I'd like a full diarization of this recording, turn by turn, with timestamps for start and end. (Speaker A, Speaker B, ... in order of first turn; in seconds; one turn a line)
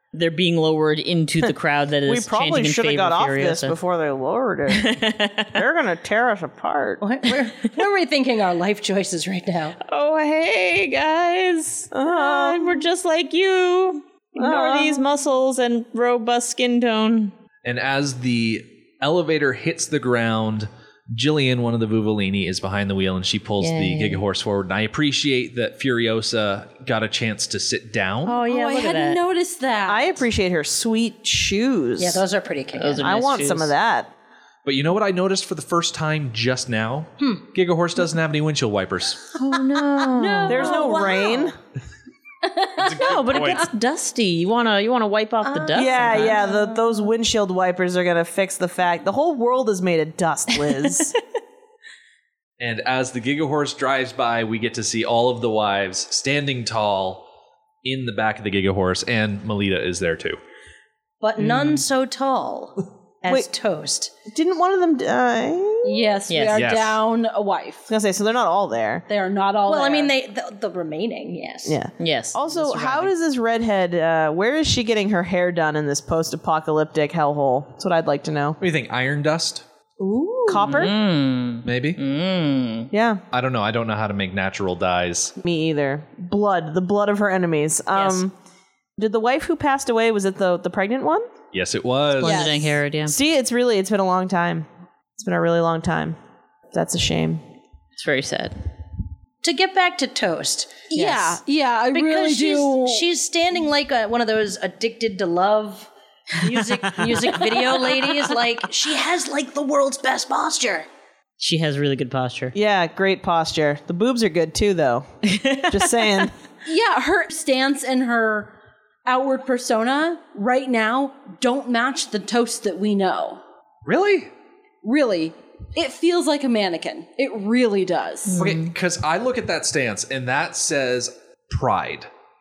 Speaker A: 0.1-3.8
Speaker B: 2.0-5.0
Speaker A: 4.7-5.6
Speaker B: 5.5-7.0
Speaker C: 7.0-9.8
Speaker A: 9.8-17.3
Speaker B: 11.9-12.8
Speaker B: 14.4-15.0
Speaker D: 17.6-28.4
Speaker A: 23.6-24.2
Speaker A: 28.2-29.2
Speaker E: 28.4-30.1
Speaker B: 29.9-32.2
Speaker C: 32.0-33.1
Speaker A: 32.7-33.7
Speaker B: 33.0-34.1
Speaker D: 34.6-39.3
Speaker A: 39.4-40.9
Speaker E: 40.2-41.4
Speaker B: 40.5-41.6
Speaker C: 40.6-41.5
Speaker E: 42.6-42.9
Speaker D: 42.8-43.7
Speaker A: 42.9-46.4
Speaker C: 45.5-46.8
Speaker B: 45.7-51.1
Speaker D: 52.6-57.2
Speaker D: 57.8-60.4
Speaker C: 61.2-64.1
Speaker B: 64.3-66.2
Speaker E: 65.8-67.9
Speaker A: 66.3-66.6
Speaker D: 66.5-67.0
Speaker B: 67.9-69.0
Speaker E: 69.1-70.1
Speaker C: 69.7-71.8
Speaker B: 71.7-78.6
Speaker A: 72.0-73.1
Speaker D: 78.6-79.6
Speaker C: 80.0-80.6
Speaker B: 80.5-81.0
Speaker A: 80.5-82.9
Speaker D: 81.6-82.0
Speaker B: 82.9-83.2
Speaker D: 83.3-85.3
Speaker B: 85.4-88.3
Speaker A: 87.9-88.2
Speaker B: 89.0-91.3
Speaker D: 91.5-92.5
Speaker A: 92.2-93.2
Speaker E: 92.2-92.6
Speaker B: 93.0-96.2
Speaker B: 96.7-97.4
Speaker A: 98.0-98.6
Speaker C: 99.4-100.9
Speaker E: 100.9-103.0
Speaker B: 100.9-101.4
Speaker C: 101.9-110.9
Speaker A: 106.8-108.0
Speaker A: 111.4-112.5
Speaker B: 112.5-115.1
Speaker A: 115.2-115.9
Speaker B: 115.7-116.3
Speaker E: 116.6-118.5
Speaker E: 119.0-123.4
Speaker D: 123.8-124.3
Speaker E: 124.8-128.5
Speaker A: 128.3-128.7
Speaker D: 128.4-132.1